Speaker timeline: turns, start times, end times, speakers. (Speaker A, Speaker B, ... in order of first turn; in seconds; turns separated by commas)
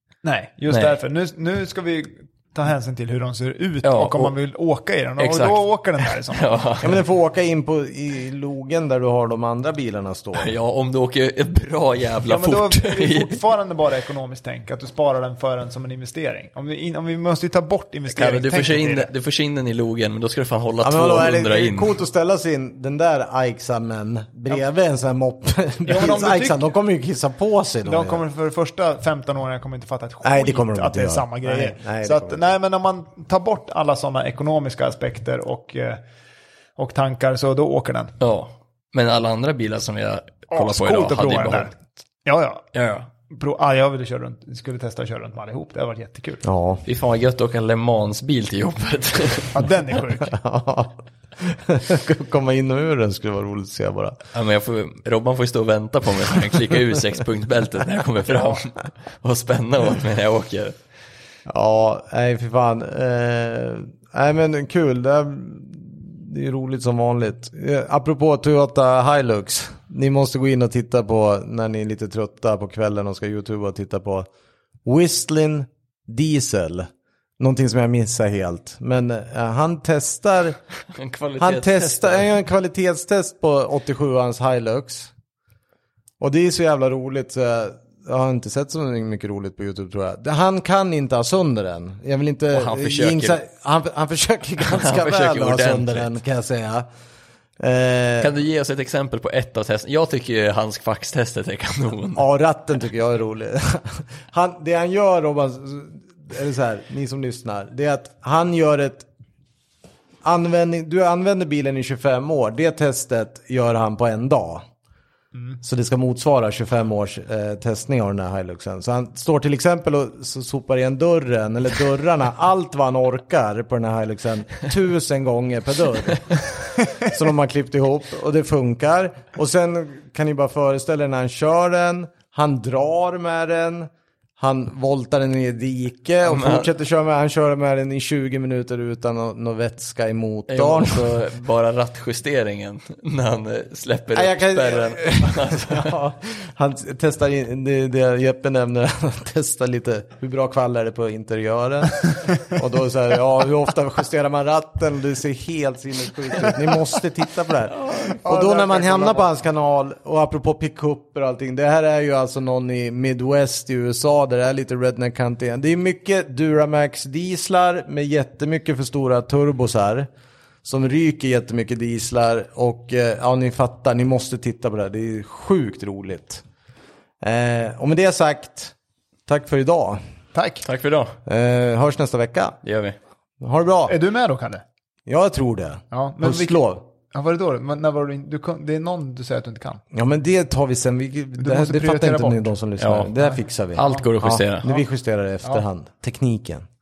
Speaker A: 0.2-6.6, Speaker B: 0.7-0.9, Speaker B: 3.8-4.3, Speaker B: 5.2-7.0, Speaker C: 6.8-10.5, Speaker B: 10.3-13.4, Speaker A: 12.2-19.1, Speaker B: 18.1-21.9, Speaker C: 20.8-28.2, Speaker A: 25.9-26.6, Speaker A: 27.8-36.0, Speaker C: 30.2-32.5, Speaker A: 36.8-38.1, Speaker B: 38.2-41.7, Speaker A: 40.5-41.7, Speaker A: 42.2-42.6, Speaker B: 42.7-43.1, Speaker A: 43.3-46.4, Speaker C: 46.4-46.8, Speaker B: 46.9-49.6, Speaker A: 49.5-50.4, Speaker C: 50.3-54.2, Speaker B: 54.3-60.8, Speaker C: 61.5-74.3, Speaker C: 74.8-80.6, Speaker B: 80.9-82.3, Speaker C: 81.4-85.1, Speaker C: 86.2-96.9, Speaker B: 92.5-93.4, Speaker B: 94.7-96.1, Speaker C: 97.6-98.3, Speaker B: 98.2-102.2, Speaker C: 102.2-109.1, Speaker C: 110.2-114.6, Speaker C: 115.6-126.2, Speaker C: 127.0-141.2, Speaker B: 136.2-136.7, Speaker B: 140.5-145.9, Speaker C: 144.1-170.1, Speaker A: 158.0-159.4, Speaker C: 170.6-176.4, Speaker C: 177.2-178.7, Speaker C: 179.3-180.0, Speaker A: 180.3-180.6, Speaker B: 180.6-181.2, Speaker C: 181.2-182.6, Speaker B: 182.6-182.9, Speaker C: 183.4-183.9, Speaker A: 183.9-184.6, Speaker C: 185.1-186.8, Speaker A: 185.9-186.6, Speaker A: 187.1-189.8, Speaker C: 189.9-196.7, Speaker A: 191.4-192.5, Speaker B: 192.8-193.1, Speaker B: 193.8-194.8